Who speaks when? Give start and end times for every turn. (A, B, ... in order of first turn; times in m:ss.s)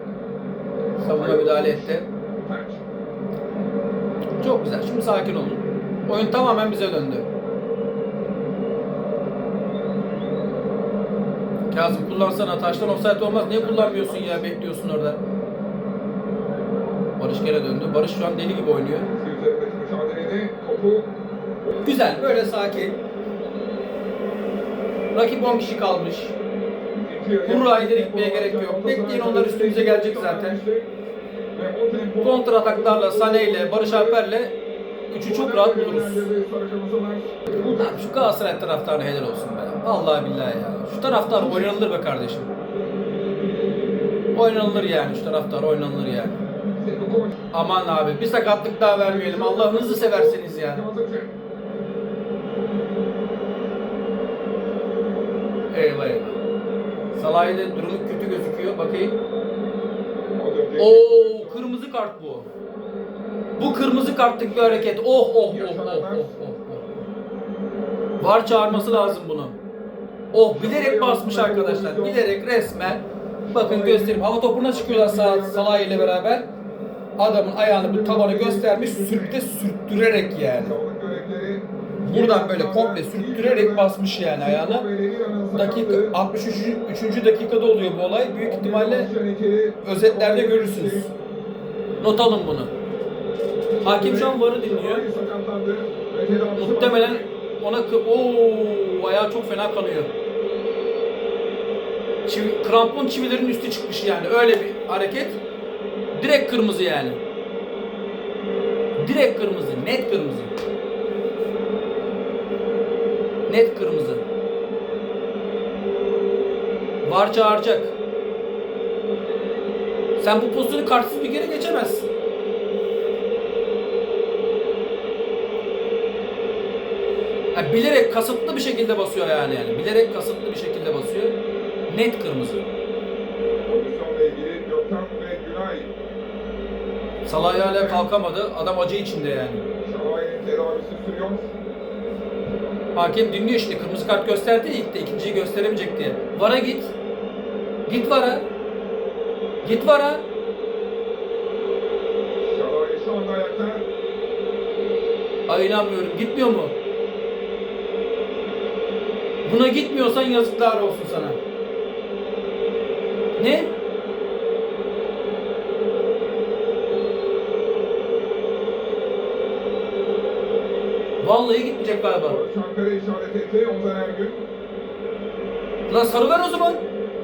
0:01.0-0:02.1 A
0:01.0-0:02.8 B
0:04.4-0:07.3 A
0:11.7-0:15.2 A
0:13.2-0:14.4 B
0:17.2-0:19.1 A
0:19.1-0:21.1 B
0:21.8-0:23.0 A
0:25.1-0:26.3 A
0:26.9-0:30.9 B
0:27.4-0:30.6 A
0:31.5-0:34.2 B
0:32.2-0:34.6 A
0:35.1-0:36.3 A
0:35.2-0:38.1 B
0:37.8-0:42.5 A
0:41.2-0:41.8 B
0:44.3-0:46.4 A
0:46.8-0:47.4 B
0:47.5-0:50.8 A
0:49.0-0:51.3 B
0:55.7-0:56.4 A
0:57.1-0:59.2 A
1:00.4-1:01.7 B
1:00.8-1:02.5 A
1:03.6-1:07.0 A
1:04.2-1:06.3 B
1:08.2-1:09.6 A
1:08.6-1:09.2 B
1:10.3-1:16.5 A
1:10.4-1:12.2 B
1:13.4-1:16.2 B
1:17.2-1:20.8 A
1:17.6-1:19.4 B
1:20.6-1:26.1 B
1:22.0-1:24.8 A
1:25.5-1:29.1 A
1:28.4-1:31.1 B
1:29.8-1:31.1 A
1:32.0-1:32.7 A
1:33.8-1:37.3 B
1:33.8-1:35.0 A
1:36.6-1:40.1 A
1:42.2-1:45.4 A
1:46.1-1:47.2 A
1:49.0-1:50.5 A
1:53.5-1:54.2 A
1:57.0-1:57.9 A
2:00.2-2:02.0 A
2:07.5-2:11.4 A
2:11.9-2:12.6 A
2:13.6-2:15.9 B
2:17.2-2:19.6 A
2:17.5-2:18.0 B
2:19.8-2:21.5 B
2:22.9-2:26.9 A
2:27.9-2:28.4 A
2:29.6-2:30.2 A
2:32.4-2:33.8 B
2:35.5-2:36.7 A
2:39.4-2:41.4 A
2:43.4-2:43.7 A
2:51.2-2:52.4 A
2:52.2-2:54.4 B
2:55.9-2:56.8 A